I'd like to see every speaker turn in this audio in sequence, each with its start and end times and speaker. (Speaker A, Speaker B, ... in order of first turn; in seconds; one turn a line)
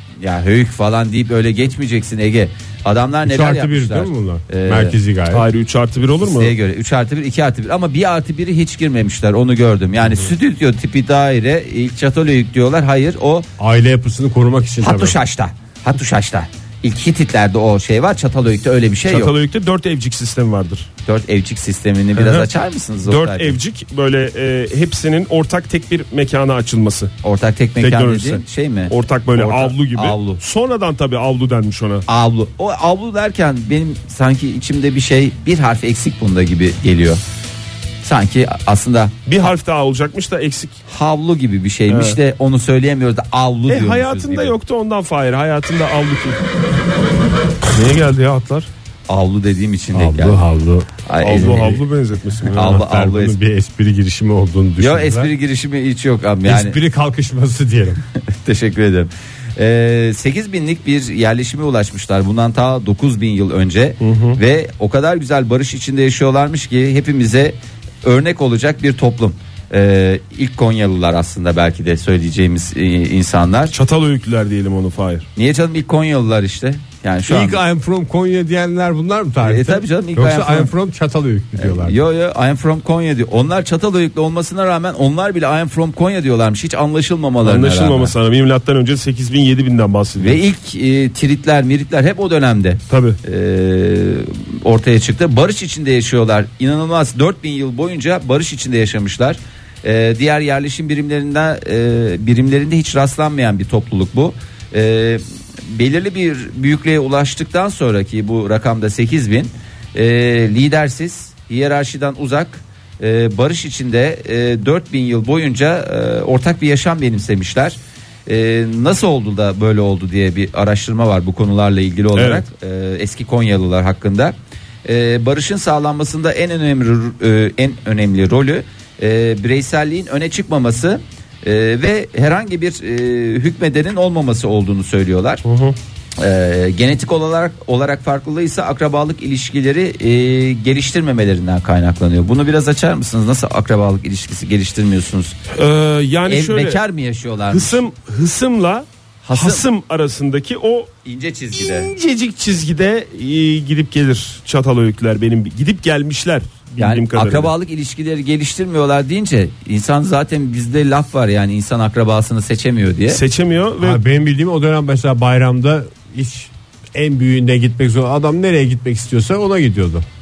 Speaker A: 0.2-5.0
Speaker B: 3.2-5.5
Speaker C: 5.3-6.5
Speaker A: 6.2-13.5
Speaker B: 13.6-15.2
Speaker A: 14.8-19.3
Speaker C: 19.1-20.9
Speaker A: 21.0-23.5
Speaker C: 22.1-22.5
Speaker C: 23.0-27.1
Speaker A: 27.2-30.4
Speaker C: 27.8-32.0
Speaker A: 32.1-37.2
Speaker A: 38.0-39.2
Speaker C: 39.2-40.8
Speaker A: 40.9-44.5
Speaker C: 41.9-42.2
Speaker C: 43.7-46.4
Speaker C: 47.7-48.7
Speaker A: 49.1-50.4
Speaker B: 49.9-50.9
Speaker A: 51.0-51.8
Speaker C: 51.2-52.8
Speaker B: 52.5-55.3
Speaker A: 52.5-53.4
Speaker A: 54.8-56.8
Speaker B: 56.4-58.0
Speaker A: 58.1-73.7
Speaker C: 64.0-64.4
Speaker C: 73.7-75.2
Speaker A: 75.3-77.6
Speaker B: 77.3-82.0
Speaker A: 79.4-80.7
Speaker A: 81.6-88.1
Speaker C: 87.4-90.4
Speaker A: 90.2-124.3
Speaker C: 92.9-93.2
Speaker C: 122.1-122.4
Speaker A: 124.8-135.4
Speaker C: 135.4-135.8
Speaker A: 136.2-145.3
Speaker C: 145.5-146.8
Speaker A: 146.3-147.8
Speaker C: 147.5-150.9
Speaker A: 149.2-149.6
Speaker A: 151.0-151.9
Speaker C: 151.5-157.5
Speaker A: 156.8-163.2
Speaker C: 163.1-164.0
Speaker B: 163.8-170.0